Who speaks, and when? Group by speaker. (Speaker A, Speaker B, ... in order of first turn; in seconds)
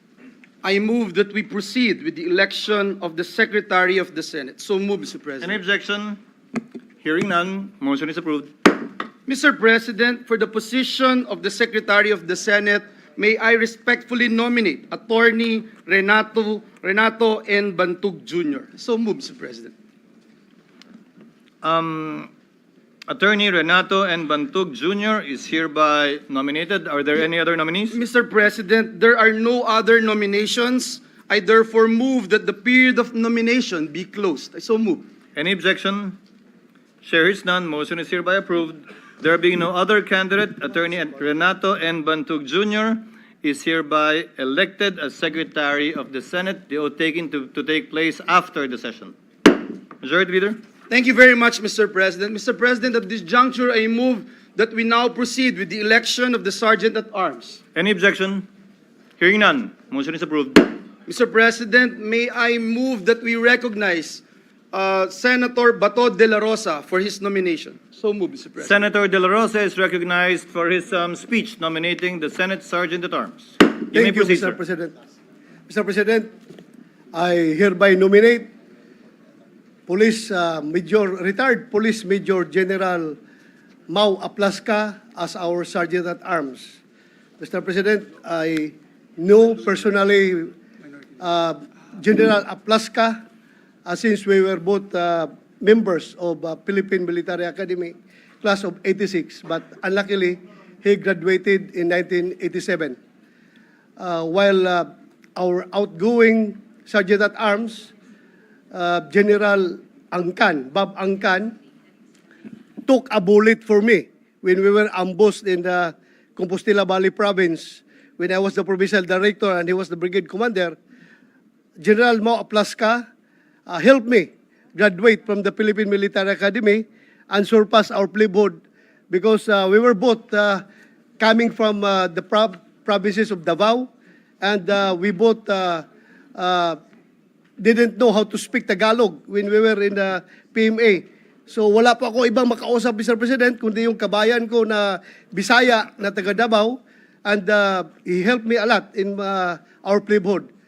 Speaker A: 0.6-5.6, 9.3-19.7, 27.9-35.1, 50.9-57.6, 61.0-68.7
Speaker B: 5.4-6.2, 7.0-8.5, 21.6-22.3, 23.1-28.0, 35.4-36.2, 37.0-49.1, 50.0-50.6, 57.7-58.5, 59.2-60.8, 68.6-74.6
Speaker C: 73.9-74.9, 75.7-76.3, 77.1-78.5, 79.9-83.2, 83.9-86.8, 87.4-90.5, 91.2-93.2, 93.8-103.0, 104.0-107.9, 108.7-111.5, 112.8-120.8, 121.8-123.0, 123.7-130.6, 131.2-133.9, 134.4-135.8, 136.3-136.8, 137.6-150.5